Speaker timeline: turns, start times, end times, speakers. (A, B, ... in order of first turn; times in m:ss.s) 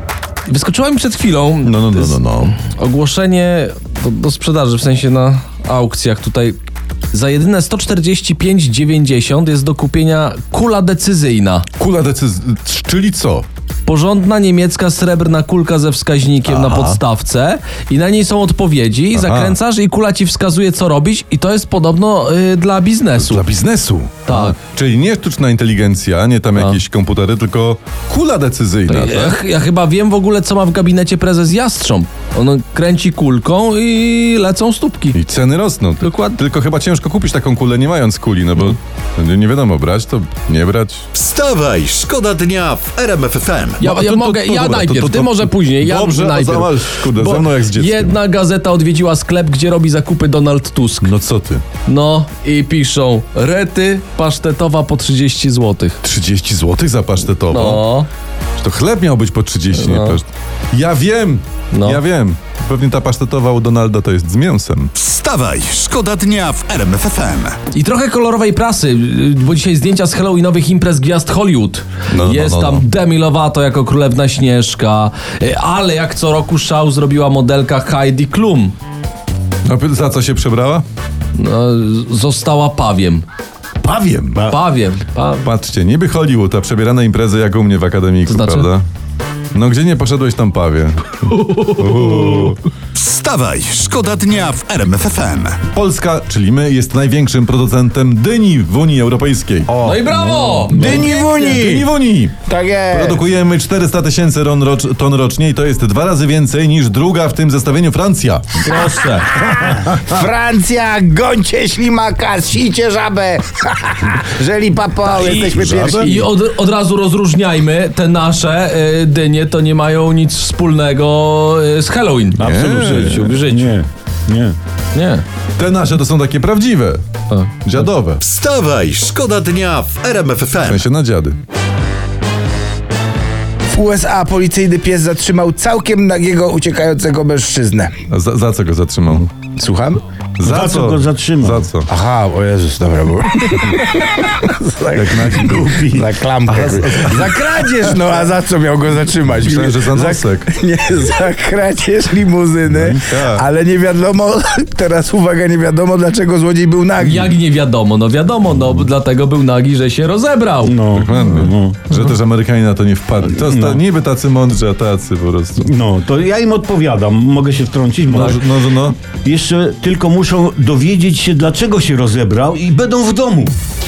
0:00.5-0:06.6 A
0:01.6-0:02.6 B
0:07.1-0:11.7 A
0:11.8-0:13.4 B
0:13.8-0:23.5 A
0:16.4-0:17.0 B
0:19.1-0:19.6 B
0:23.2-0:29.4 B
0:24.3-0:24.6 A
0:28.9-0:35.2 A
0:35.1-0:41.0 B
0:36.0-0:36.4 A
0:41.1-0:43.8 C
0:43.8-0:51.1 A
0:43.8-0:48.2 B
0:51.0-0:51.6 B
0:51.8-0:56.0 A
0:56.0-0:57.8 B
0:57.5-0:58.1 A
0:58.6-1:04.9 B
0:59.7-1:00.2 A
1:01.7-1:02.0 A
1:05.0-1:07.6 C
1:07.7-1:18.7 A
1:12.1-1:12.8 B
1:19.6-1:20.8 B
1:21.3-1:23.2 A
1:23.8-1:24.5 B
1:24.4-1:25.5 A
1:25.4-1:28.8 B
1:28.3-1:28.7 A
1:29.5-1:32.6 B
1:31.3-1:32.5 A
1:32.9-1:35.6 C
1:35.6-1:40.0 B
1:39.8-1:41.5 A
1:40.1-1:41.0 D
1:40.7-1:41.9 E
1:40.8-1:42.4 B
1:42.4-1:43.2 E
1:42.9-1:48.6 B
1:48.6-1:49.5 A
1:49.4-1:56.3 E
1:55.0-2:03.8 A
1:55.2-1:56.1 B
2:02.4-2:03.2 B
2:02.4-2:04.6 D
2:04.9-2:05.2 A
2:05.6-2:07.0 B
2:07.3-2:07.8 A
2:07.6-2:08.2 B
2:08.2-2:10.8 C
2:10.6-2:11.4 B
2:13.7-2:17.9 E
2:18.1-2:19.3 B
2:19.4-2:20.0 E
2:20.4-2:21.9 B
2:20.4-2:21.7 D
2:21.9-2:37.3 E
2:24.9-2:25.8 B
2:26.5-2:27.7 B
2:29.3-2:30.5 B
2:32.6-2:33.4 B
2:37.0-2:40.8 A
2:40.6-2:41.8 D
2:40.9-2:45.7 B
2:43.3-2:43.8 D
2:45.6-2:53.5 D
2:48.1-2:49.0 B